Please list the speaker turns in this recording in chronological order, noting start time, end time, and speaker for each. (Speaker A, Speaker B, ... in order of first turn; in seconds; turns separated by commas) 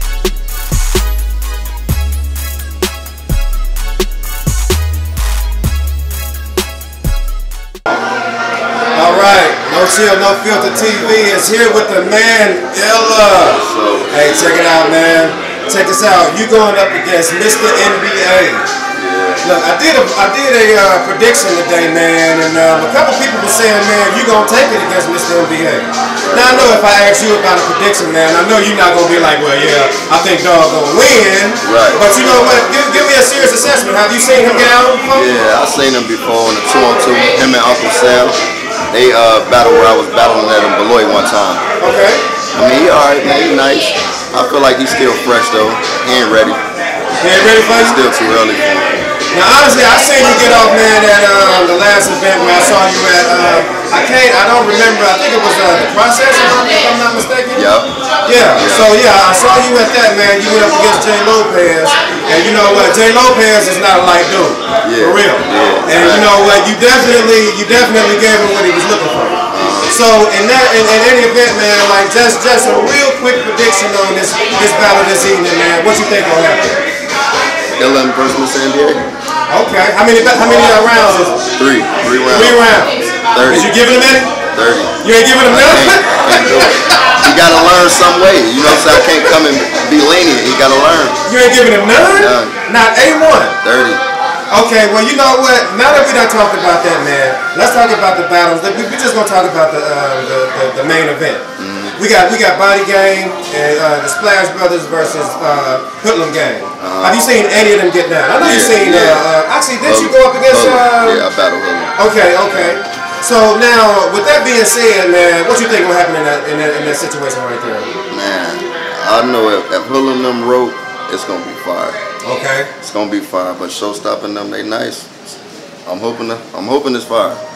Speaker A: 8.9-18.7, Speaker B: 13.6-14.5, Speaker B: 18.9-19.5, Speaker A: 19.4-35.3, Speaker B: 26.2-26.8, Speaker B: 31.6-32.6, Speaker B: 34.5-38.4, Speaker B: 38.9-41.6, Speaker A: 41.8-42.2, Speaker B: 42.5-46.6, Speaker A: 47.2-48.0, Speaker B: 47.4-49.0, Speaker A: 49.3-57.6, Speaker B: 57.5-58.9, Speaker A: 58.2-76.8, Speaker B: 64.8-66.3, Speaker B: 69.5-69.9, Speaker B: 77.8-79.1, Speaker A: 79.5-81.4, Speaker B: 81.5-82.6, Speaker A: 82.3-84.3, Speaker B: 83.3-83.7, Speaker B: 84.5-91.2, Speaker A: 85.0-86.7, Speaker A: 91.2-93.6, Speaker B: 92.1-92.5, Speaker B: 93.6-94.0, Speaker A: 94.5-101.4, Speaker B: 101.6-102.0, Speaker A: 102.0-111.2, Speaker B: 106.8-107.2, Speaker B: 108.4-109.3, Speaker B: 109.8-111.9, Speaker A: 112.0-117.9, Speaker B: 118.1-122.0, Speaker A: 122.2-122.7, Speaker B: 122.8-125.3, Speaker B: 125.8-127.4